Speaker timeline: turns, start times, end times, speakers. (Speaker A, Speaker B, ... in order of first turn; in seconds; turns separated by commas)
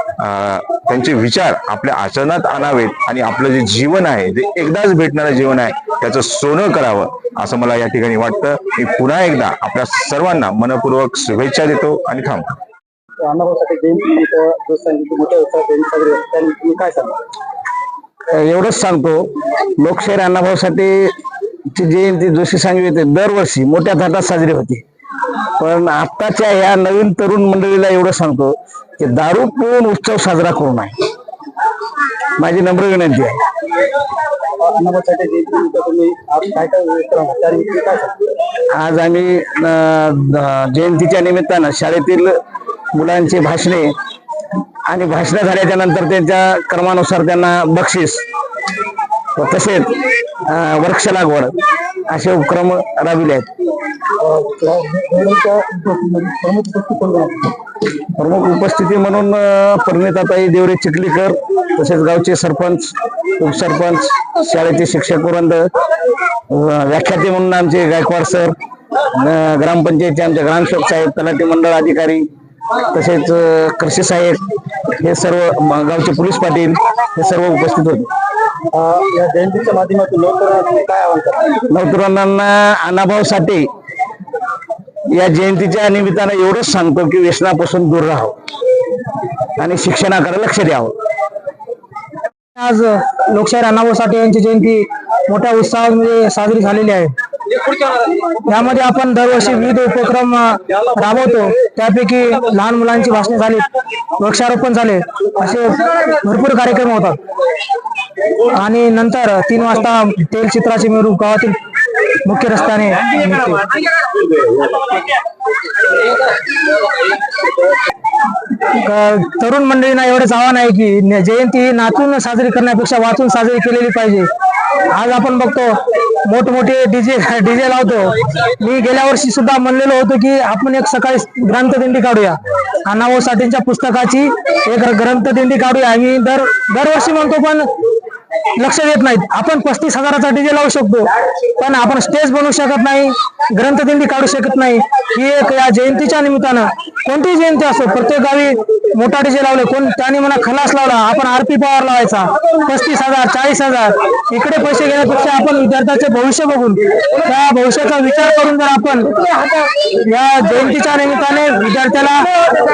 Speaker A: 0.2-12.4, Speaker B: 13.2-17.2, Speaker C: 18.3-21.1, Speaker C: 21.7-24.8, Speaker C: 25.6-31.0, Speaker C: 32.4-33.4, Speaker B: 34.6-38.1, Speaker C: 38.7-42.4, Speaker C: 42.9-43.9, Speaker C: 44.9-48.2, Speaker C: 49.4-51.5, Speaker C: 52.1-53.5, Speaker B: 54.2-57.5, Speaker C: 58.2-65.7, Speaker C: 66.5-68.5, Speaker C: 69.2-72.3, Speaker C: 72.9-78.1, Speaker B: 78.7-81.5, Speaker C: 81.7-83.7, Speaker C: 85.1-88.3, Speaker C: 89.6-90.9, Speaker D: 92.5-97.1, Speaker D: 98.5-103.7, Speaker D: 104.2-107.2, Speaker D: 108.5-111.6, Speaker D: 112.2-113.6, Speaker D: 118.8-124.3, Speaker D: 124.9-137.7, Speaker D: 138.6-141.1, Speaker D: 141.6-159.1, Speaker D: 160.0-162.5